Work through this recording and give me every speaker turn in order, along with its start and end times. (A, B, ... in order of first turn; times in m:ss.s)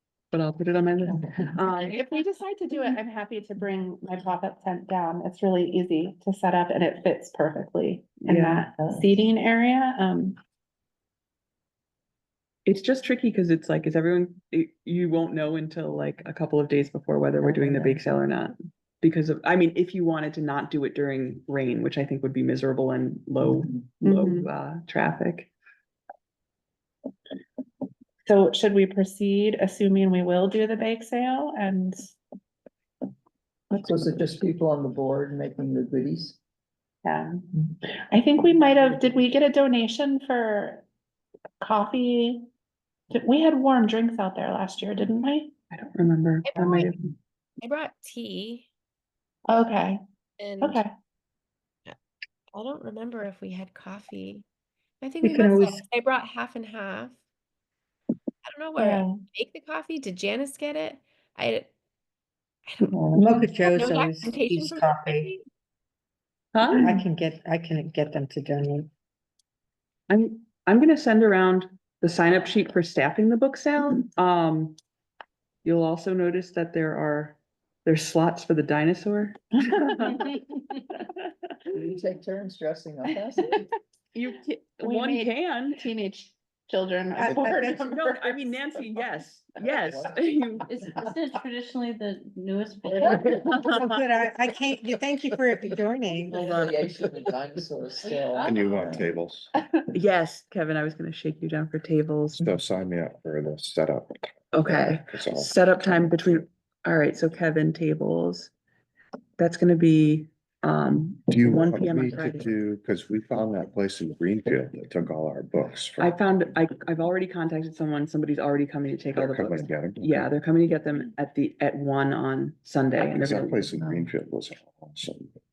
0:00.3-0:02.0 A
0:01.2-0:01.5 B
0:01.7-0:10.4 C
0:08.2-0:08.6 A
0:08.8-0:09.1 D
0:12.6-0:25.5 A
0:17.6-0:17.9 D
0:24.0-0:24.5 C
0:28.2-0:31.9 C
0:33.7-0:36.4 B
0:38.1-0:40.8 C
0:41.6-0:42.4 C
0:43.1-0:45.5 C
0:45.7-0:47.0 A
0:46.4-0:46.9 E
0:47.6-0:48.7 E
0:49.5-0:50.0 C
0:50.4-0:50.8 E
0:52.5-0:54.4 E
0:55.0-0:57.2 E
0:55.2-0:55.8 F
0:58.4-1:01.7 E
0:58.8-0:59.2 C
1:02.7-1:03.0 E
1:03.0-1:03.4 B
1:03.1-1:05.3 F
1:03.6-1:05.4 E
1:06.5-1:06.9 A
1:06.8-1:08.9 F
1:10.1-1:14.8 A
1:15.6-1:20.2 A
1:19.7-1:20.3 C
1:21.7-1:23.6 B
1:24.1-1:25.8 A
1:24.8-1:28.5 C
1:27.2-1:27.7 F
1:27.6-1:30.7 A
1:29.6-1:30.2 B
1:30.6-1:33.4 D
1:32.9-1:33.6 B
1:33.4-1:36.7 F
1:36.3-1:39.0 B
1:38.0-1:39.0 D
1:38.4-1:39.5 G
1:39.9-1:42.5 A
1:42.4-1:46.2 G
1:44.5-1:48.5 A
1:49.4-1:52.5 A
1:51.3-1:56.2 G
1:56.0-2:03.7 A
1:59.1-2:00.3 G
2:03.1-2:05.3 G
2:03.8-2:04.1 B